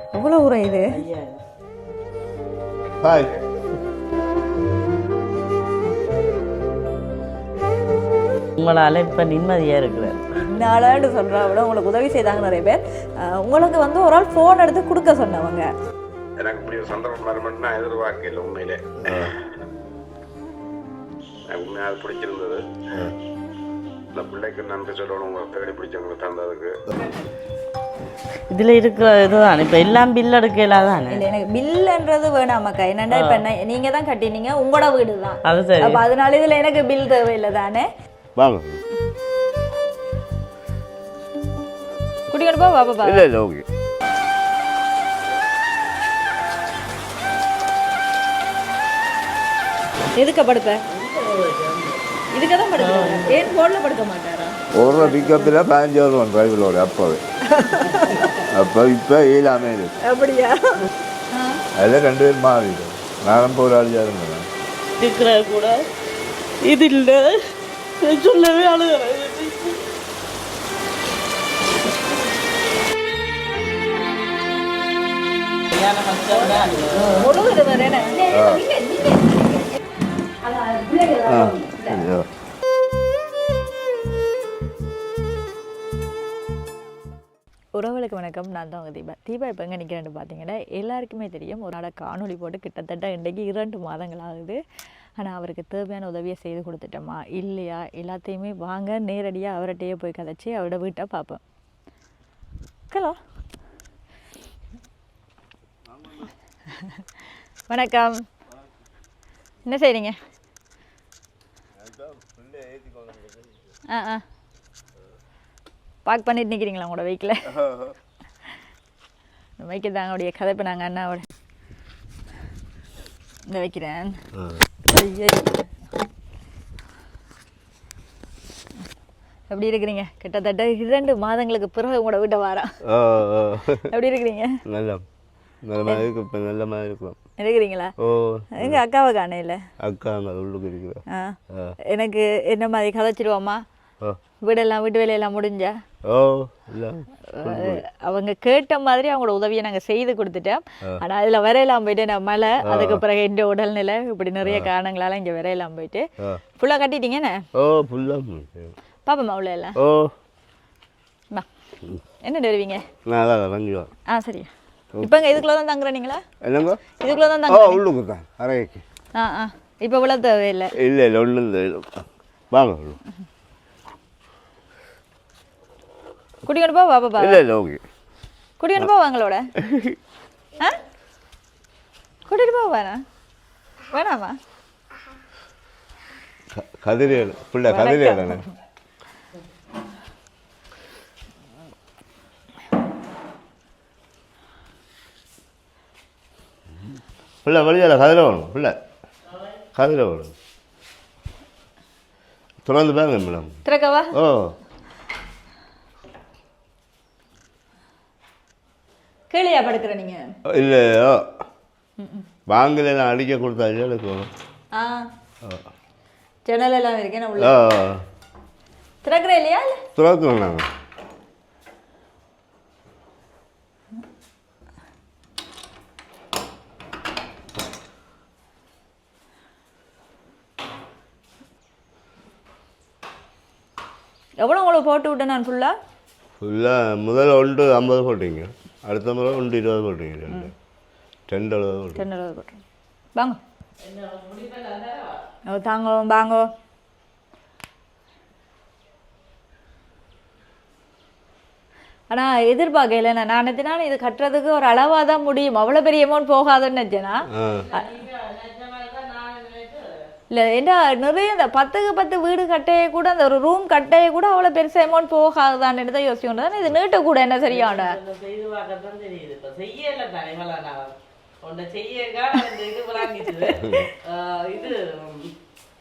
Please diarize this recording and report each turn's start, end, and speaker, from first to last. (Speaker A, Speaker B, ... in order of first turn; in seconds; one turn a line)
Speaker A: 0.1-0.9
Speaker B: 0.9-1.4
Speaker C: 3.0-3.3
Speaker B: 8.6-10.3
Speaker A: 10.3-15.7
Speaker D: 16.4-19.4
Speaker C: 19.0-19.4
Speaker D: 21.5-22.7
Speaker C: 22.9-23.2
Speaker D: 24.1-26.8
Speaker B: 28.5-31.2
Speaker A: 31.1-37.9
Speaker B: 33.1-33.4
Speaker B: 35.5-36.0
Speaker C: 38.4-38.8
Speaker A: 42.3-43.2
Speaker C: 43.0-43.7
Speaker A: 50.2-50.8
Speaker B: 50.9-52.2
Speaker A: 52.3-54.5
Speaker B: 52.8-53.5
Speaker C: 54.7-57.2
Speaker A: 57.5-58.3
Speaker C: 58.4-60.0
Speaker A: 60.0-60.8
Speaker A: 61.3-61.6
Speaker C: 61.8-64.5
Speaker B: 65.0-65.8
Speaker B: 66.6-69.9
Speaker B: 75.7-77.4
Speaker A: 77.1-79.8
Speaker C: 78.3-78.7
Speaker A: 80.4-82.1
Speaker C: 81.2-82.3
Speaker A: 87.8-94.6
Speaker A: 95.2-101.4
Speaker A: 102.9-103.2
Speaker C: 105.9-106.3
Speaker A: 107.7-108.2
Speaker A: 109.6-110.2
Speaker C: 111.8-113.7
Speaker A: 113.9-114.2
Speaker A: 116.1-117.5
Speaker C: 117.5-118.0
Speaker A: 119.6-121.3
Speaker A: 123.5-124.2
Speaker C: 124.3-124.7
Speaker A: 124.8-125.7
Speaker A: 129.5-132.8
Speaker C: 132.8-133.9
Speaker A: 133.9-134.6
Speaker C: 134.7-135.0
Speaker C: 135.6-137.2
Speaker A: 137.4-137.9
Speaker C: 138.0-138.8
Speaker A: 138.5-139.7
Speaker C: 139.8-141.8
Speaker A: 141.1-141.4
Speaker A: 141.9-143.6
Speaker A: 144.4-145.8
Speaker C: 146.0-147.8
Speaker A: 147.3-156.1
Speaker C: 152.6-153.0
Speaker C: 154.4-154.7
Speaker A: 156.6-157.4
Speaker C: 157.5-158.7
Speaker A: 159.1-159.8
Speaker C: 159.8-160.1
Speaker A: 162.2-162.8
Speaker C: 163.1-163.9
Speaker A: 164.1-166.2
Speaker C: 164.9-165.3
Speaker C: 166.4-166.8
Speaker A: 167.0-167.8
Speaker C: 167.5-168.8
Speaker A: 169.1-170.7
Speaker C: 170.7-173.0
Speaker A: 176.4-177.4
Speaker C: 177.2-177.8
Speaker A: 178.6-179.5
Speaker C: 179.6-180.0
Speaker A: 182.3-183.0
Speaker A: 183.9-184.4
Speaker C: 186.5-188.4
Speaker A: 187.7-188.5
Speaker C: 197.4-198.8
Speaker C: 199.7-200.3
Speaker C: 202.6-203.5
Speaker A: 203.7-204.1
Speaker C: 204.1-204.6
Speaker A: 209.3-210.3
Speaker C: 210.5-211.3
Speaker A: 212.0-212.2
Speaker C: 212.5-214.3
Speaker A: 214.7-215.1
Speaker C: 215.4-215.7
Speaker A: 216.4-217.5
Speaker C: 217.4-218.0
Speaker A: 219.0-219.8
Speaker C: 219.9-220.7
Speaker A: 234.4-235.7
Speaker C: 236.4-240.5
Speaker C: 241.3-242.0
Speaker A: 241.9-242.6
Speaker B: 243.8-245.2
Speaker A: 245.5-246.5
Speaker A: 252.1-257.9
Speaker C: 257.3-257.7
Speaker B: 257.6-260.1
Speaker A: 260.3-267.9
Speaker B: 267.5-275.3